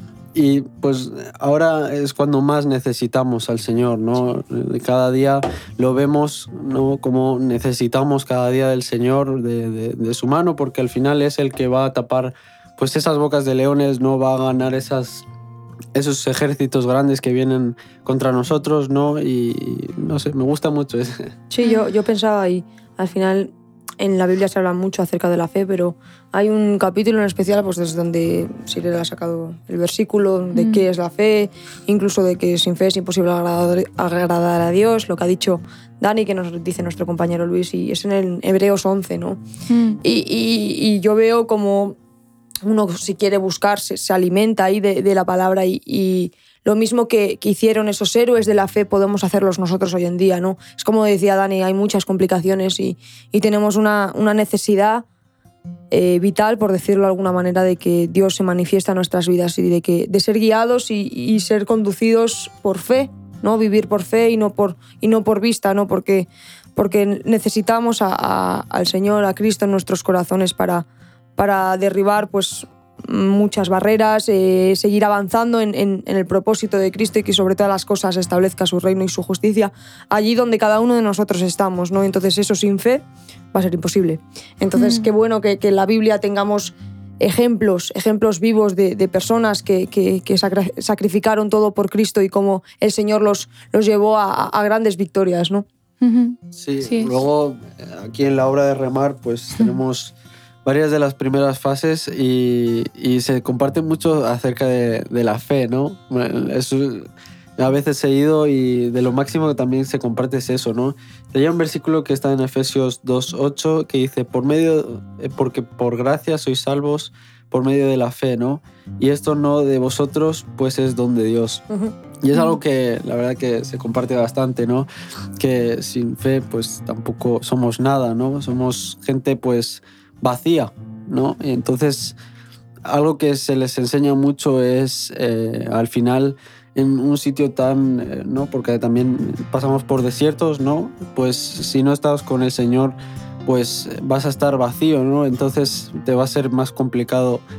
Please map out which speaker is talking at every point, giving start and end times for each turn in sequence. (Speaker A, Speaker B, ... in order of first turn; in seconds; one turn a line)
Speaker A: 0.3-15.2
Speaker A: 15.9-21.3
Speaker B: 21.5-39.4
Speaker C: 30.5-30.9
Speaker C: 39.7-40.0
Speaker B: 40.0-42.0
Speaker B: 42.6-55.0
Speaker B: 55.9-70.9
Speaker B: 71.4-95.7
Speaker C: 84.7-85.1
Speaker C: 96.0-97.2
Speaker A: 96.5-100.1
Speaker A: 100.7-121.7
Speaker B: 121.7-122.0
Speaker A: 122.2-124.9
Speaker C: 122.3-122.6
Speaker A: 125.4-132.2
Speaker A: 132.9-147.4